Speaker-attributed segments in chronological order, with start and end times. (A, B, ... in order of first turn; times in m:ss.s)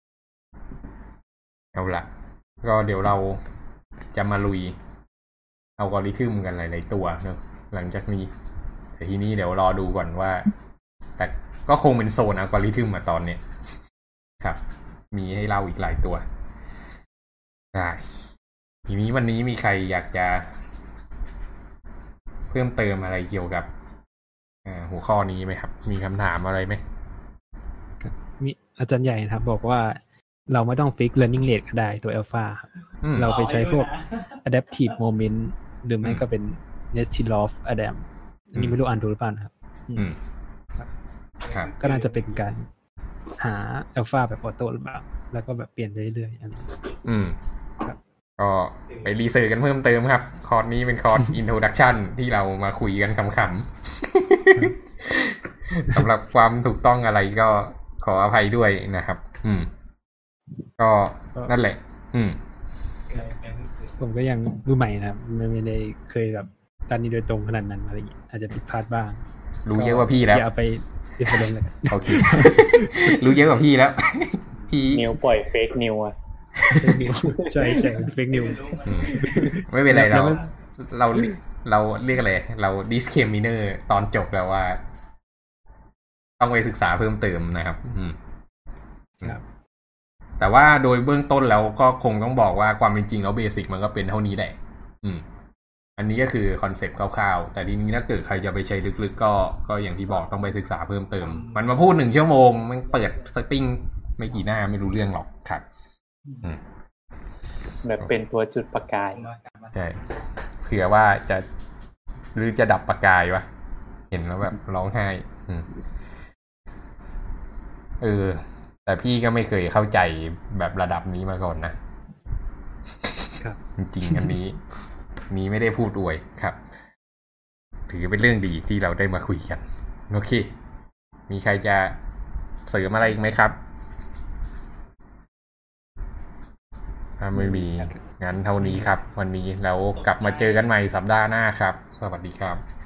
0:01.7-0:02.1 A
0:02.6-0:03.4 A
0:04.1-0:04.8 A
0:05.8-0:08.3 A
0:09.0-0:10.5 A
0:11.2-0:13.4 A
0:14.4-0:16.2 A
0:17.7-0:18.1 A
0:18.8-0:20.6 A
0:22.5-0:23.7 A
0:24.6-0:26.8 A
0:28.0-0:40.1 B
0:33.0-0:33.4 A
0:41.4-0:41.7 A
0:41.6-0:42.7 B
0:43.3-0:46.9 B
0:47.0-0:47.4 A
0:48.4-0:59.7 A
1:00.8-1:02.4 A
1:03.1-1:09.2 B
1:09.6-1:10.5 A
1:09.7-1:13.3 B
1:11.9-1:15.1 A
1:14.9-1:16.1 C
1:16.6-1:17.3 A
1:16.8-1:20.4 B
1:18.8-1:24.8 A
1:26.4-1:28.2 A
1:30.4-1:35.2 A
1:36.0-1:45.6 A
1:47.8-1:49.3 C
1:49.7-1:51.4 A
1:52.3-1:53.5 A
1:54.1-1:55.7 A
1:58.0-2:01.8 A
2:03.0-2:04.6 A
2:05.3-2:06.6 A
2:07.9-2:10.5 A
2:11.3-2:12.0 A
2:12.7-2:13.6 A
2:17.2-2:22.6 A